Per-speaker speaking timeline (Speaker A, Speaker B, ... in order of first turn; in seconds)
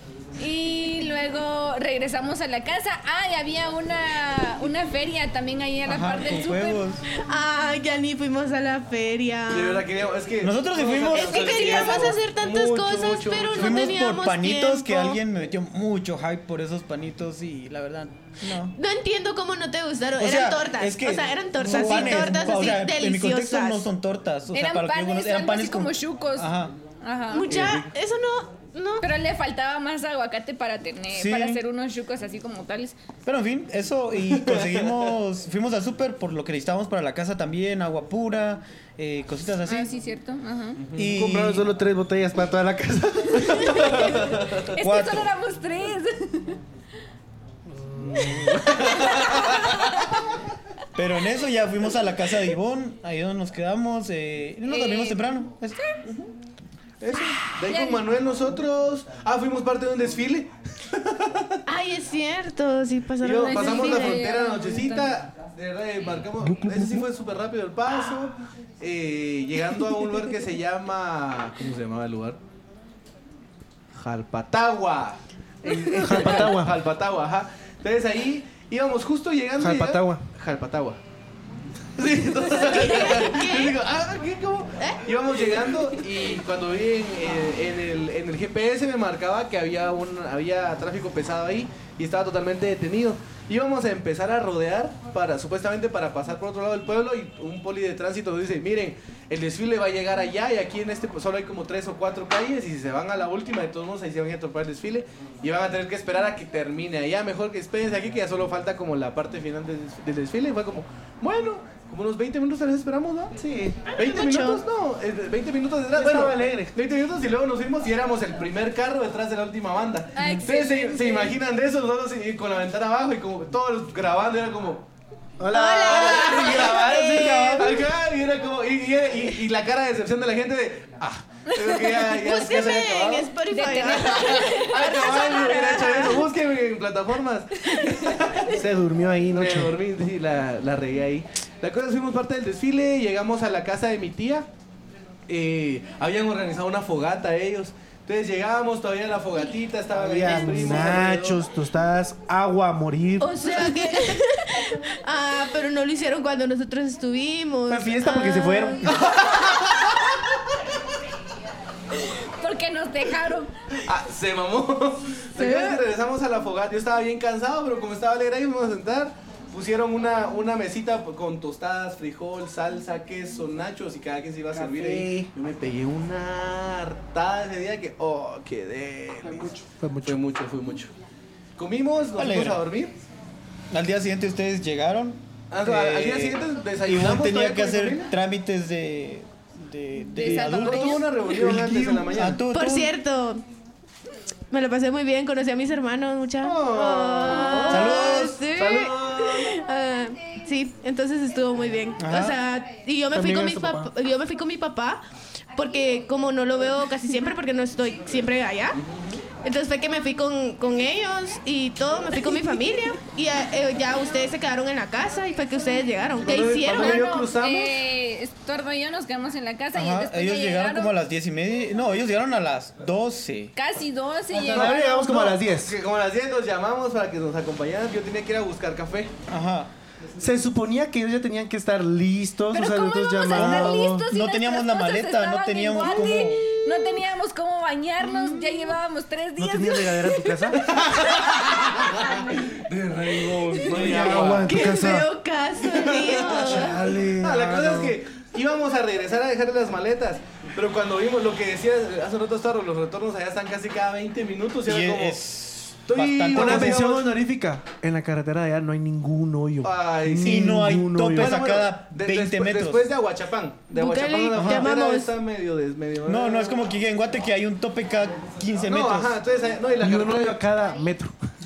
Speaker A: 0.4-6.8, 24.5-26.5, 27.0-27.6, 29.0-32.9, 39.6-40.8, 43.7-44.0, 44.6-46.6, 49.2-49.7, 54.6-55.2, 57.7-58.0, 63.4-65.1, 120.2-121.3, 131.6-131.9, 133.5-135.9, 161.9-163.5, 190.1-191.2, 216.7-220.9, 223.6-225.2, 232.5-240.5, 243.7-244.2
Speaker B: 5.8-7.0, 10.4-11.6, 13.5-18.8, 20.2-26.7, 31.1-31.6, 33.2-39.9, 40.9-41.6, 44.8-45.3, 50.9-55.8, 182.2-182.6, 183.7-191.1, 192.1-192.9, 197.7-198.4, 202.0-202.4, 219.7-223.5, 229.3-229.7, 233.3-236.4, 254.7-257.0, 260.2-262.9, 264.3-264.7, 266.1-269.2
Speaker C: 7.1-9.9, 11.1-15.2, 18.7-23.8, 27.3-29.0, 61.6-64.2, 82.6-83.8, 84.8-85.7, 114.0-114.6, 125.5-127.7, 132.1-136.3, 153.2-158.9, 192.5-193.4, 194.5-205.0, 205.5-208.8, 209.3-217.2, 238.1-238.6, 244.4-246.8, 263.7-265.1
Speaker D: 9.5-14.0, 27.4-27.9, 34.3-35.1, 40.8-41.1, 44.0-44.6, 47.8-50.0, 57.0-61.6, 63.2-72.4, 73.9-81.0, 82.0-113.4, 113.9-124.8, 125.8-138.6, 139.3-144.5, 145.3-151.4, 158.8-160.6, 163.8-180.9, 181.6-182.9, 185.5-188.1, 190.2-192.4, 196.4-199.5, 208.7-209.2, 216.2-217.8, 224.5-229.1, 240.5-244.7, 245.6-255.2, 255.8-257.1, 259.6-260.6, 261.1-266.6, 268.7-270.4
Speaker E: 41.1-44.3, 66.4-67.0, 75.7-76.7, 79.6-80.2, 113.3-113.9, 116.0-116.7, 125.4-127.8, 138.4-139.8, 149.9-153.4, 157.7-158.9, 174.5-175.3, 179.2-180.2, 191.2-192.2, 203.1-203.9, 224.3-225.8, 230.2-234.1, 239.4-240.6, 243.7-245.1, 246.3-247.9, 256.3-261.4, 269.8-271.1